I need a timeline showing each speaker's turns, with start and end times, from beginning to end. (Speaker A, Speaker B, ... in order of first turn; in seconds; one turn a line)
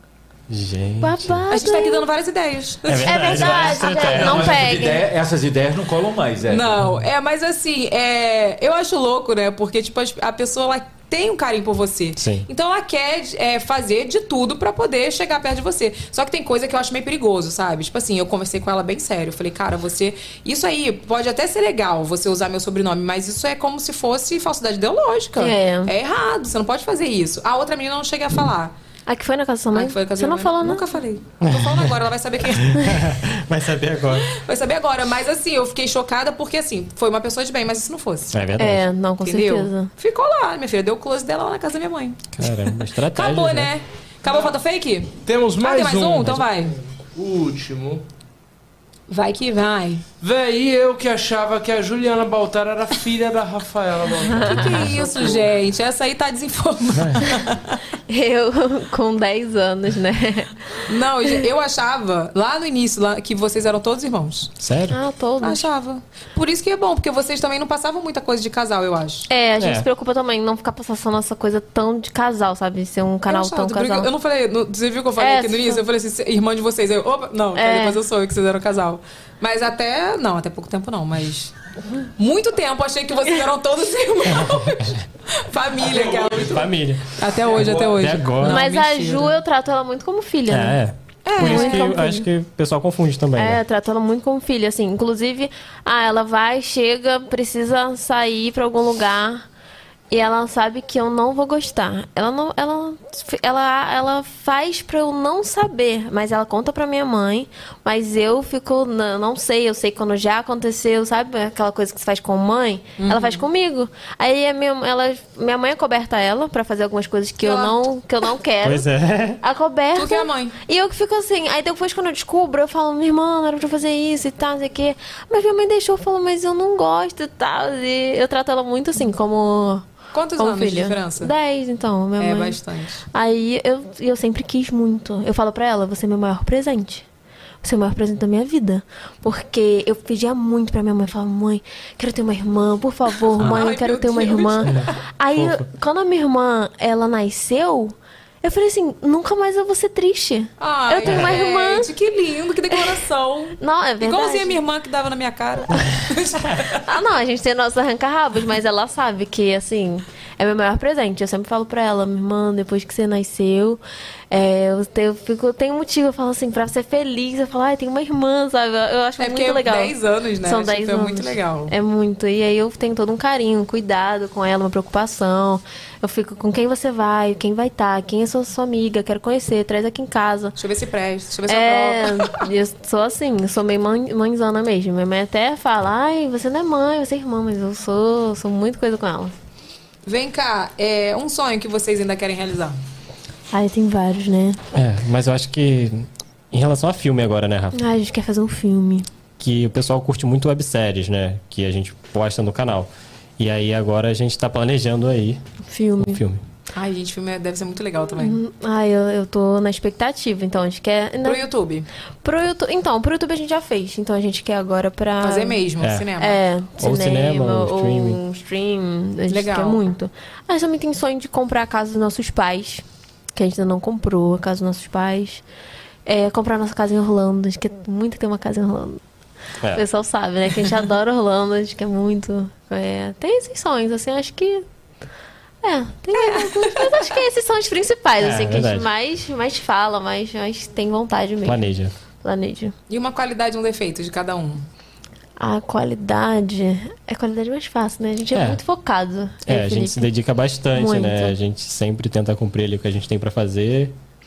Speaker A: 0.5-1.4
Speaker B: 1.0-2.1
Speaker C: 1.5-3.9
Speaker A: 2.9-4.7
Speaker B: 3.1-5.1
Speaker D: 4.0-6.8
Speaker C: 6.5-28.7
Speaker A: 12.2-12.5
Speaker B: 25.4-25.9
Speaker B: 29.1-31.0
Speaker C: 29.7-32.9
Speaker A: 31.4-31.9
Speaker A: 32.7-34.3
Speaker C: 34.3-38.4
Speaker A: 38.3-38.9
Speaker B: 38.6-39.9
Speaker C: 39.2-42.3
Speaker A: 42.3-43.7
Speaker C: 43.1-46.8
Speaker E: 45.2-48.0
Speaker C: 49.1-50.0
Speaker E: 50.2-55.5
Speaker C: 54.4-57.8
Speaker B: 58.1-61.4
Speaker C: 60.9-64.5
Speaker A: 64.6-65.0
Speaker B: 64.9-65.7
Speaker C: 65.4-69.3
Speaker B: 69.3-74.1
Speaker A: 69.6-69.9
Speaker C: 73.3-81.5
Speaker B: 75.2-75.8
Speaker B: 77.5-78.0
Speaker C: 82.2-89.3
Speaker A: 86.3-88.6
Speaker B: 88.4-90.8
Speaker A: 90.5-93.6
Speaker C: 91.2-92.0
Speaker B: 91.4-92.3
Speaker B: 93.4-99.5
Speaker B: 100.1-118.9
Speaker C: 113.0-113.5
Speaker C: 117.4-117.8
Speaker A: 118.6-119.4
Speaker B: 119.4-129.9
Speaker C: 120.0-120.6
Speaker C: 130.1-131.3
Speaker B: 130.4-132.6
Speaker C: 132.2-133.0
Speaker B: 133.1-137.1
Speaker B: 137.6-151.9
Speaker C: 143.4-144.9
Speaker A: 145.4-145.6
Speaker C: 150.6-156.8
Speaker B: 153.6-154.6
Speaker B: 156.8-180.6
Speaker C: 169.2-171.7
Speaker C: 180.6-182.5
Speaker B: 181.5-189.3
Speaker C: 190.1-192.8
Speaker B: 193.5-194.6
Speaker A: 194.8-197.8
Speaker B: 197.7-199.1
Speaker A: 199.4-205.4
Speaker B: 205.7-206.2
Speaker A: 206.0-206.4
Speaker C: 206.7-208.4
Speaker B: 208.2-211.5
Speaker C: 211.2-211.9
Speaker B: 212.2-215.6
Speaker C: 215.2-216.4
Speaker A: 215.8-216.1
Speaker B: 216.2-222.8
Speaker A: 216.8-218.2
Speaker C: 219.3-219.8
Speaker B: 223.3-225.4
Speaker B: 226.1-229.0
Speaker B: 229.7-234.6
Speaker B: 235.6-241.6
Speaker C: 236.1-237.1
Speaker A: 238.2-238.9
Speaker A: 241.4-241.9
Speaker B: 242.2-242.7
Speaker C: 242.9-244.7
Speaker B: 245.4-250.1
Speaker A: 248.3-248.6
Speaker A: 249.5-253.9
Speaker B: 250.7-251.3